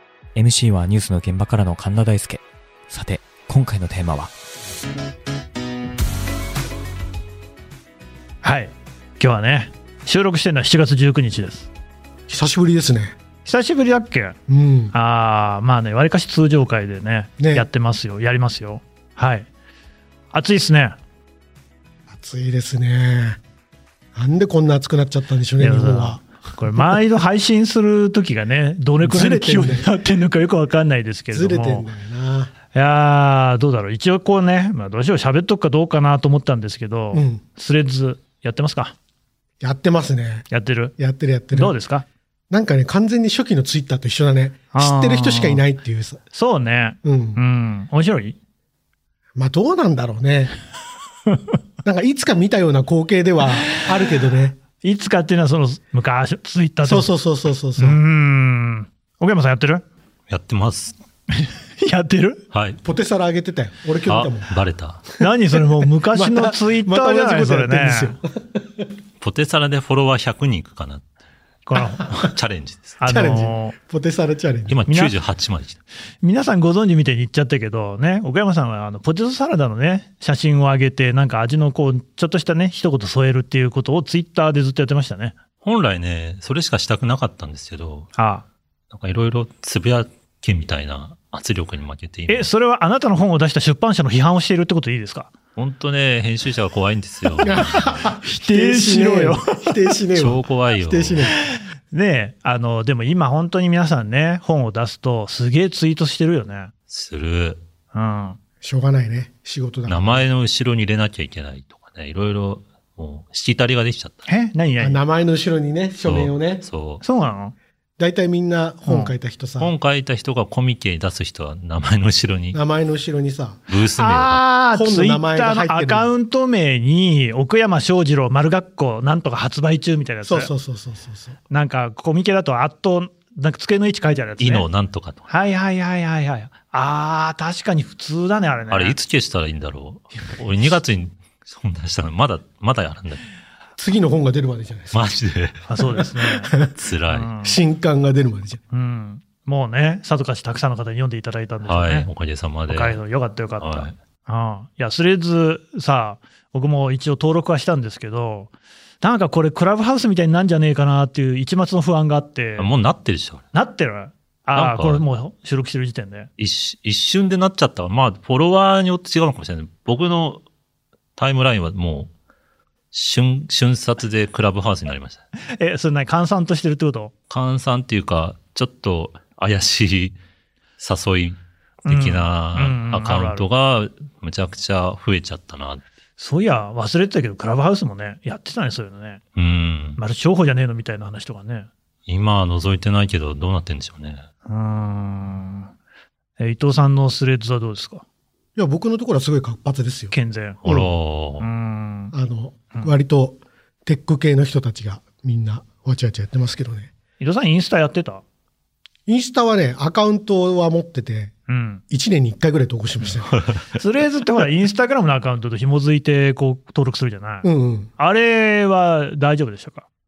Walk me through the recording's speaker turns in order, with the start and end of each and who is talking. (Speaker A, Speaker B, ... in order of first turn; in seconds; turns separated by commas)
Speaker A: 0.3-4.3, Speaker B: 8.4-11.7, Speaker C: 12.3-13.1, Speaker B: 13.4-14.4, Speaker C: 14.5-14.9, Speaker B: 14.9-19.5, Speaker C: 17.4-17.7, Speaker B: 20.3-20.9, Speaker C: 22.1-23.4, Speaker C: 24.1-26.2, Speaker B: 25.6-31.9, Speaker C: 29.0-29.9, Speaker C: 31.3-32.5, Speaker B: 32.7-38.9, Speaker C: 37.1-37.4, Speaker C: 39.6-40.5, Speaker B: 40.5-40.9, Speaker C: 41.0-41.7, Speaker B: 41.5-42.0, Speaker C: 42.5-46.2, Speaker B: 44.7-45.6, Speaker B: 46.3-48.4, Speaker C: 47.0-47.4, Speaker C: 49.4-50.5, Speaker C: 51.8-54.6, Speaker B: 54.8-57.1, Speaker C: 56.8-58.0, Speaker B: 57.8-59.8, Speaker D: 60.3-61.0, Speaker B: 61.3-62.4, Speaker D: 62.5-62.8, Speaker C: 62.8-64.5, Speaker D: 64.1-65.1, Speaker B: 65.2-68.2, Speaker C: 66.1-68.8, Speaker D: 69.2-71.0, Speaker B: 71.7-72.1, Speaker D: 72.1-73.0, Speaker B: 73.0-73.7, Speaker C: 73.0-74.8, Speaker D: 74.7-75.8, Speaker B: 74.9-75.1, Speaker B: 76.2-85.3, Speaker D: 85.6-88.1, Speaker B: 88.2-88.4, Speaker D: 88.9-92.5, Speaker B: 92.3-95.3, Speaker D: 95.5-98.0, Speaker C: 97.4-101.3, Speaker B: 98.2-99.7, Speaker D: 100.1-101.2, Speaker B: 101.9-106.7, Speaker D: 106.9-107.6, Speaker B: 107.9-108.4, Speaker C: 108.6-110.2, Speaker D: 109.9-114.2, Speaker B: 114.2-115.0, Speaker C: 114.8-116.6, Speaker D: 116.0-117.0, Speaker B: 117.0-117.5, Speaker C: 118.0-119.7, Speaker B: 118.8-119.1, Speaker D: 119.6-122.6, Speaker C: 122.5-123.6, Speaker D: 123.7-124.4, Speaker B: 124.0-130.5, Speaker C: 124.7-126.1, Speaker C: 130.2-131.4, Speaker B: 131.5-134.7, Speaker D: 134.4-135.2, Speaker B: 135.3-139.0, Speaker D: 138.7-143.2, Speaker C: 143.8-145.1, Speaker D: 144.9-145.7, Speaker B: 145.7-146.5, Speaker D: 146.7-147.3, Speaker B: 147.1-147.6, Speaker C: 147.4-148.6, Speaker B: 148.7-152.1, Speaker D: 151.6-153.0, Speaker B: 152.7-162.7, Speaker D: 153.6-153.9, Speaker D: 162.6-163.4, Speaker B: 163.5-166.3, Speaker D: 164.5-165.0, Speaker D: 166.4-170.4, Speaker D: 171.2-172.1, Speaker D: 172.9-175.2, Speaker B: 175.6-177.1, Speaker D: 177.3-180.2, Speaker D: 180.8-185.8, Speaker B: 181.8-183.4, Speaker B: 186.2-189.2, Speaker D: 189.3-190.0, Speaker B: 190.0-191.7, Speaker D: 192.1-194.2, Speaker B: 194.5-195.7, Speaker B: 196.4-198.0, Speaker C: 198.6-200.1, Speaker B: 200.1-200.6, Speaker D: 200.6-201.5, Speaker B: 201.4-202.1, Speaker C: 202.1-206.9, Speaker B: 207.2-208.2, Speaker C: 209.1-211.3, Speaker B: 211.5-211.8, Speaker C: 211.9-213.3, Speaker B: 213.8-219.8, Speaker C: 217.4-217.9